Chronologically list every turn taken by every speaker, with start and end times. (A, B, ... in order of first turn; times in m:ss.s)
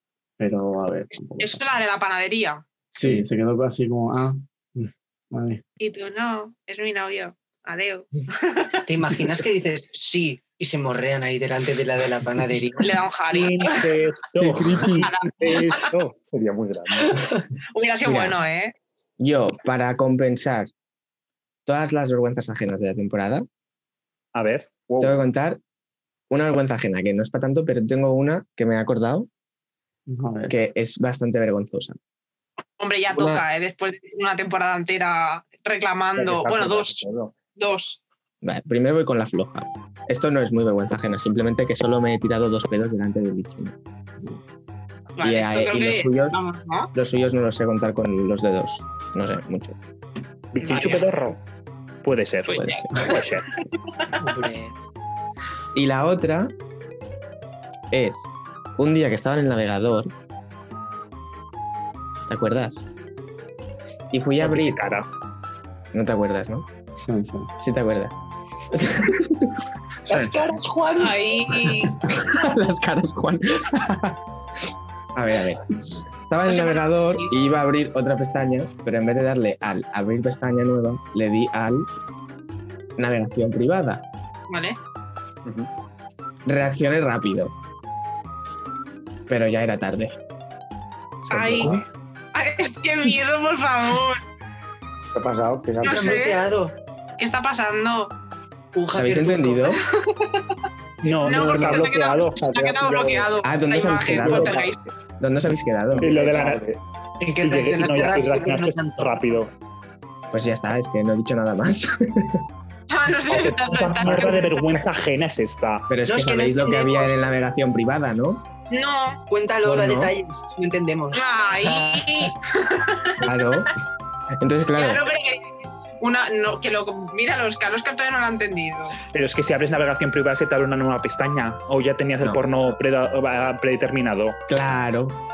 0:00.4-0:01.6 A
0:01.4-0:02.6 B
0:03.0-0:03.2 C
0:03.0-0:05.6 A
0:05.8-0:08.9 B
0:08.9-0:13.0 D
0:12.8-0:13.9 B
0:13.3-0:16.1 E
0:14.4-0:14.9 C
0:14.9-0:15.9 B
0:15.8-0:17.2 F
0:17.0-0:18.7 B
0:18.0-0:18.4 C
0:19.2-0:20.7 C
0:21.6-0:23.4 C
0:24.3-0:24.9 E
0:24.9-0:25.1 F
0:25.0-0:25.6 C
0:26.3-0:29.3 C
0:30.1-0:30.6 A
0:30.5-0:32.0 C
0:32.8-0:37.0 B
0:33.1-0:33.4 C
0:36.2-0:37.3 F
0:37.6-0:38.0 B
0:38.4-0:43.8 C
0:45.2-0:46.9 B
0:45.2-0:46.4 C
0:46.9-0:49.8 C
0:50.5-0:51.4 E
0:50.6-0:51.0 B
0:52.0-0:53.5 E
0:52.5-0:53.2 B
0:52.5-0:53.2 C
0:54.1-0:54.7 D
0:55.7-0:56.5 C
0:57.9-1:00.1 C
1:02.3-1:02.9 C
1:04.1-1:04.8 C
1:04.4-1:05.1 E
1:05.9-1:06.7 C
1:07.0-1:07.5 A
1:07.6-1:09.6 C
1:10.1-1:11.2 D
1:11.0-1:12.0 B
1:12.0-1:14.2 C
1:15.1-1:15.6 C
1:16.2-1:21.9 C
1:16.4-1:17.3 B
1:23.0-1:24.0 C
1:24.5-1:24.8 B
1:26.4-1:27.5 C
1:29.3-1:30.2 C
1:31.2-1:31.8 E
1:31.3-1:31.8 B
1:32.3-1:34.2 B
1:35.1-1:36.1 F
1:35.8-1:36.4 B
1:35.8-1:36.7 D
1:37.2-1:38.1 B
1:38.7-1:39.7 D
1:38.9-1:39.8 C
1:40.0-1:40.6 B
1:41.0-1:42.9 E
1:41.1-1:41.9 F
1:41.2-1:44.8 B
1:42.4-1:43.3 F
1:43.4-1:44.6 C
1:45.2-1:46.2 C
1:45.9-1:46.8 F
1:46.0-1:46.6 E
1:47.2-1:49.2 D
1:47.4-1:49.5 E
1:50.3-1:52.4 C
1:52.9-1:54.6 B
1:53.3-1:55.9 E
1:55.9-1:58.4 C
1:56.1-1:57.0 D
1:56.6-1:57.0 B
1:58.7-1:59.2 B
1:59.3-2:02.3 D
1:59.6-2:00.1 C
2:01.1-2:03.5 B
2:03.2-2:03.7 C
2:04.4-2:05.0 C
2:04.8-2:05.4 B
2:06.0-2:09.0 B
2:09.1-2:14.4 E
2:12.2-2:12.4 C
2:14.5-2:15.2 C